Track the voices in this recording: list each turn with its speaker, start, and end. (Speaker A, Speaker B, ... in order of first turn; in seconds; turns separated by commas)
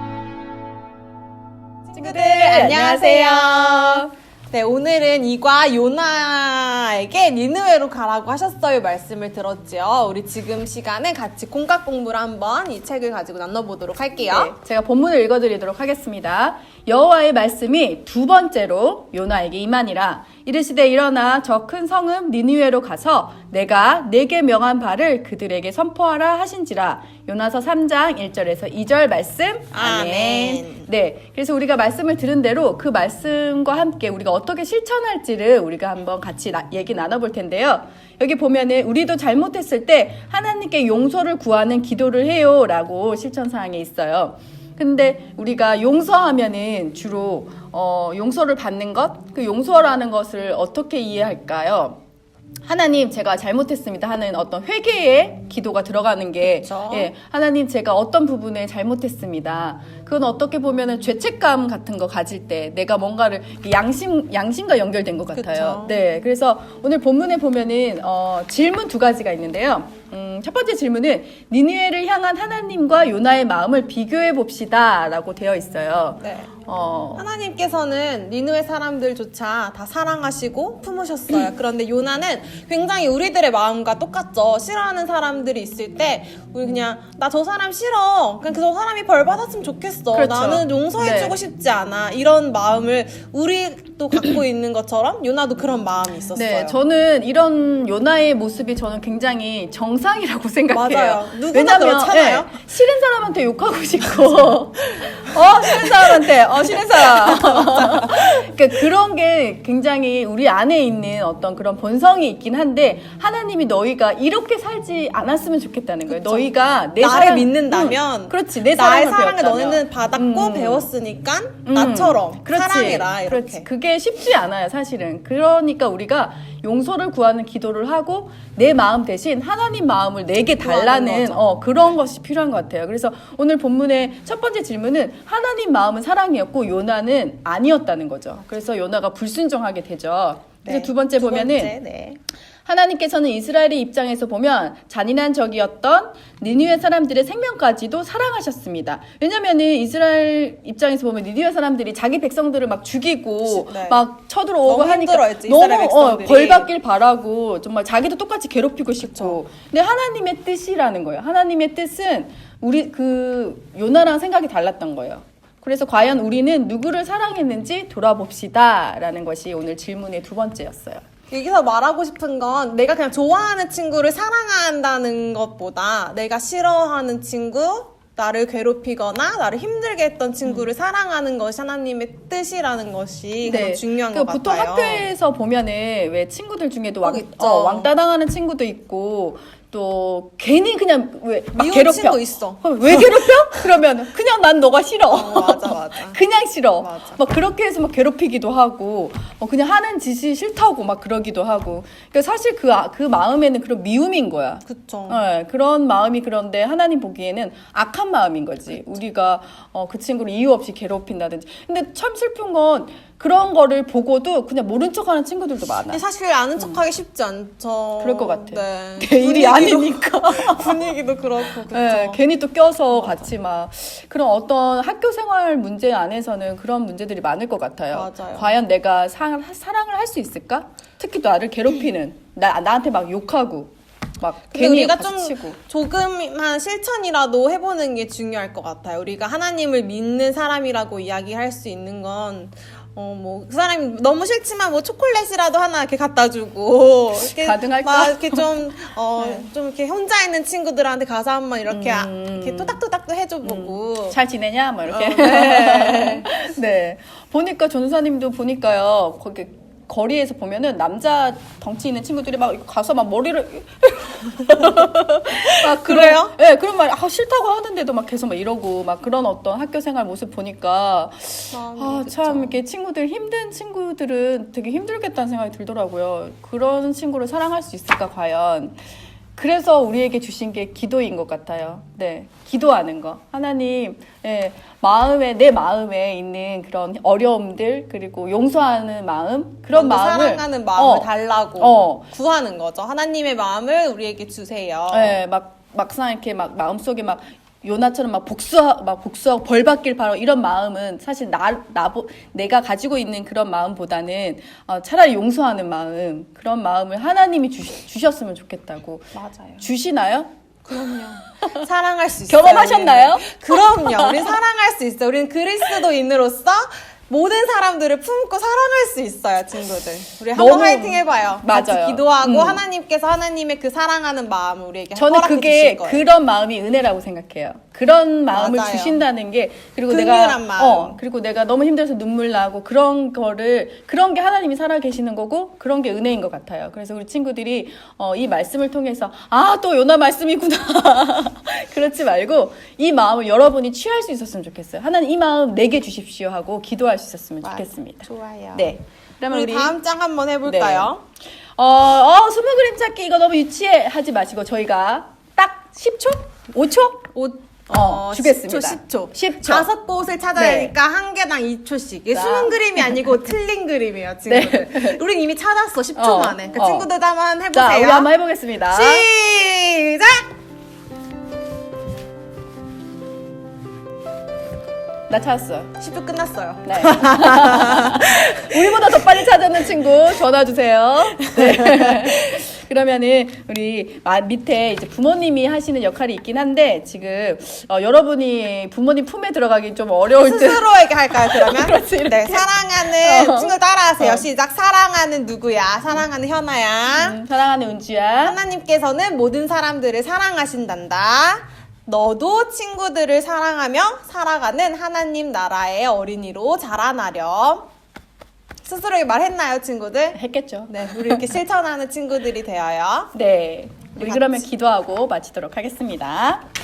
Speaker A: 1.9-14.5, Speaker B: 1.9-4.1, Speaker B: 14.3-52.0, Speaker A: 29.7-30.9, Speaker B: 52.6-77.2, Speaker A: 56.4-57.1, Speaker A: 65.3-65.9, Speaker A: 76.2-76.5, Speaker A: 77.2-96.8, Speaker B: 90.1-91.3, Speaker B: 96.3-120.9, Speaker A: 100.7-102.5, Speaker A: 105.7-108.4, Speaker A: 116.1-123.7, Speaker B: 121.7-141.7, Speaker A: 130.6-131.6, Speaker A: 140.6-142.2, Speaker B: 142.7-171.0, Speaker A: 153.5-154.0, Speaker A: 154.7-156.7, Speaker A: 159.0-159.3, Speaker A: 171.3-185.1, Speaker B: 183.4-216.0, Speaker A: 187.0-187.9, Speaker A: 191.6-193.0, Speaker A: 195.1-196.2, Speaker A: 196.8-197.2, Speaker A: 204.7-205.2, Speaker A: 215.9-222.2, Speaker B: 218.0-220.9, Speaker B: 221.7-235.6, Speaker A: 227.9-228.5, Speaker A: 234.5-254.2, Speaker B: 247.1-248.5, Speaker B: 249.2-249.5, Speaker B: 251.7-252.8, Speaker B: 253.4-278.8, Speaker A: 254.9-256.3, Speaker A: 265.3-266.3, Speaker A: 271.5-272.5, Speaker B: 279.3-292.1, Speaker A: 289.7-295.1, Speaker B: 294.9-310.3, Speaker A: 309.1-309.6, Speaker A: 310.6-326.0, Speaker B: 312.3-314.4, Speaker B: 320.3-322.6, Speaker B: 324.9-349.7, Speaker A: 328.3-329.0, Speaker A: 329.9-331.0, Speaker A: 347.4-348.7, Speaker A: 349.3-351.0, Speaker B: 350.4-350.9, Speaker B: 351.6-357.1, Speaker A: 357.1-368.1, Speaker B: 357.7-359.7, Speaker B: 360.4-360.7, Speaker B: 362.1-363.0, Speaker B: 364.3-365.0, Speaker B: 365.9-366.9, Speaker B: 367.5-369.1, Speaker A: 368.7-370.2, Speaker B: 375.1-375.7, Speaker A: 375.8-379.0, Speaker B: 376.7-394.2, Speaker A: 381.4-382.1, Speaker A: 390.2-397.2, Speaker B: 396.9-398.4, Speaker A: 398.2-407.7, Speaker A: 408.6-410.2, Speaker B: 410.1-411.2, Speaker A: 410.7-413.1, Speaker B: 413.1-416.4, Speaker A: 413.9-414.4